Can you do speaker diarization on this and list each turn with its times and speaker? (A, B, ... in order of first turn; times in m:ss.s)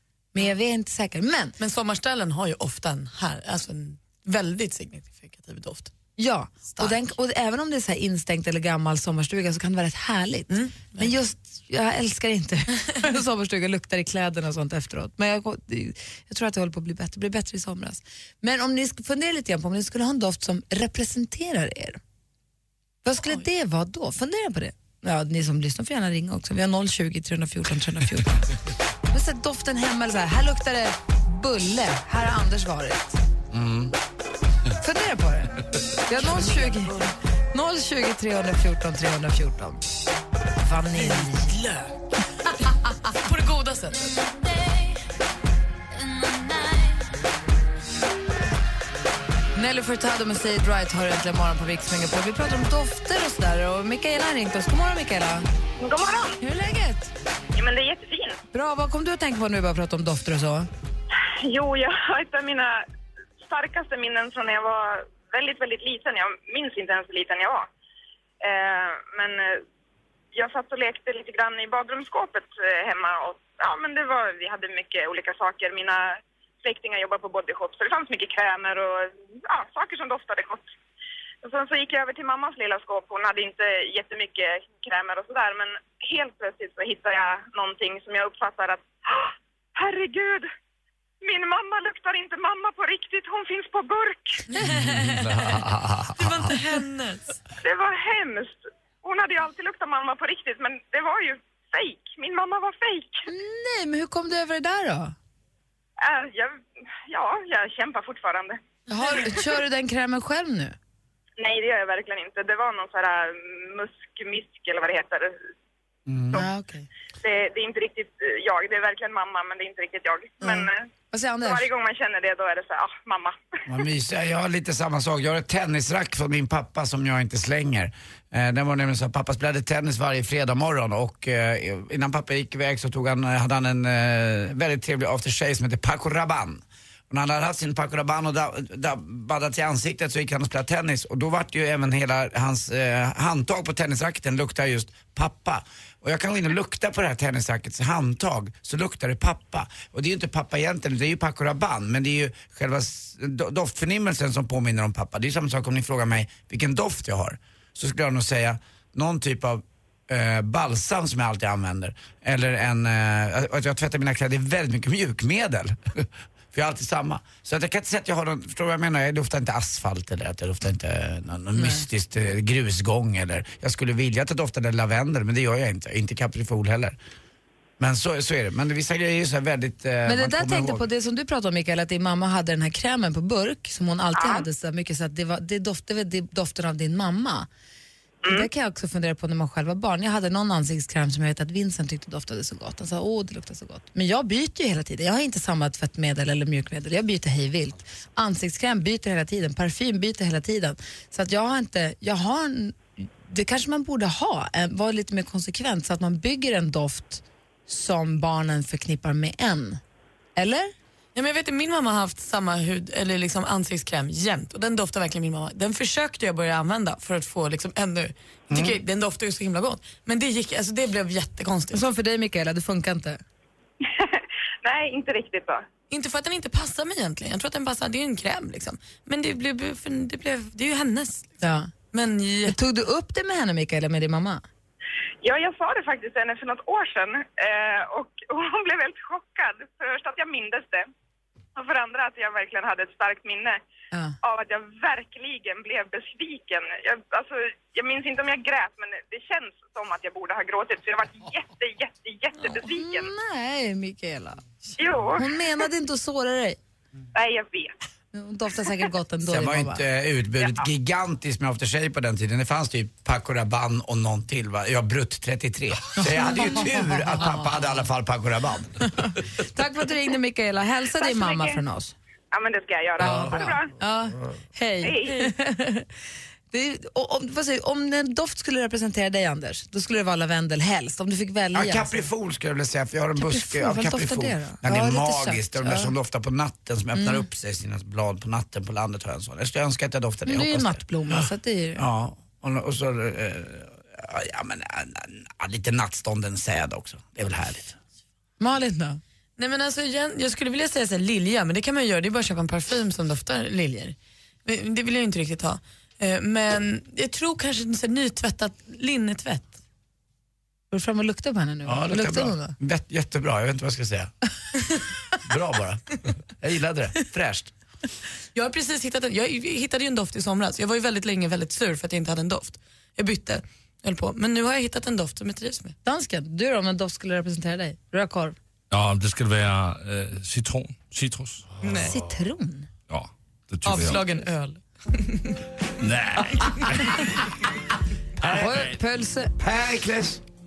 0:00.3-0:01.5 A
0:01.6-0:05.9 B
0:06.2-0:22.0 A
0:10.5-0:11.1 B
0:23.0-0:28.5 A
0:29.1-0:33.2 A
0:33.5-0:33.9 C
0:34.8-0:36.9 A
0:36.1-0:37.1 B
0:37.5-0:39.8 A
0:40.6-0:41.6 A
0:41.0-0:41.9 B
0:43.1-0:44.2 B
0:46.2-0:46.9 B
0:49.5-0:55.5 A
0:55.8-0:56.4 D
0:56.4-0:57.1 A
0:57.6-0:58.4 D
0:58.5-1:00.7 A
1:01.4-1:02.8 D
1:03.4-1:07.7 D
1:08.4-1:09.6 D
1:10.3-1:20.7 D
1:21.4-1:30.5 D
1:31.2-1:34.4 D
1:34.6-1:35.2 B
1:34.8-1:35.7 E
1:36.1-1:37.4 B
1:37.6-1:43.2 D
1:43.3-1:45.1 A
1:46.0-1:48.6 D
1:48.9-1:50.8 A
1:51.4-1:55.4 D
1:56.1-1:56.4 C
1:56.3-1:56.9 A
1:57.2-2:00.8 D
2:00.4-2:01.7 A
2:01.4-2:03.4 D
2:03.7-2:57.0 C
2:51.6-2:51.8 A
2:57.8-3:00.8 C
3:00.0-3:07.5 A
3:04.2-3:04.4 D
3:08.3-3:29.8 A
3:30.4-3:30.7 A
3:31.1-3:41.8 B
3:38.5-3:38.8 C
3:41.7-3:43.2 A
3:43.8-3:45.6 D
3:45.9-3:51.4 B
3:51.4-3:51.7 A
3:51.9-3:52.6 B
3:52.5-3:54.4 A
3:55.2-4:00.9 D
4:01.6-4:03.6 D
4:04.2-4:13.1 D
4:12.4-4:14.4 A
4:14.8-4:15.2 D
4:15.1-4:16.6 A
4:17.1-4:17.7 D
4:18.1-4:19.8 A
4:19.2-4:28.9 C
4:26.0-4:27.5 A
4:28.9-4:31.9 A
4:31.0-4:31.6 D
4:32.3-4:33.7 D
4:33.0-4:35.9 A
4:34.8-4:35.2 D
4:36.5-4:42.0 A
4:41.5-4:51.2 C
4:43.2-4:45.9 A
4:46.9-4:47.2 A
4:50.2-4:51.8 A
4:51.8-4:57.8 C
4:58.4-4:59.0 A
4:59.4-5:09.5 B
5:10.7-5:12.6 A
5:11.6-5:14.1 C
5:15.2-5:17.5 C
5:18.3-5:25.7 B
5:25.8-5:28.4 A
5:28.7-5:31.9 E
5:31.6-5:31.9 B
5:31.8-5:32.7 A
5:32.9-5:34.1 E
5:33.6-5:35.4 B
5:35.8-5:36.9 E
5:38.2-5:38.8 E
5:38.2-5:39.3 A
5:39.4-5:40.2 C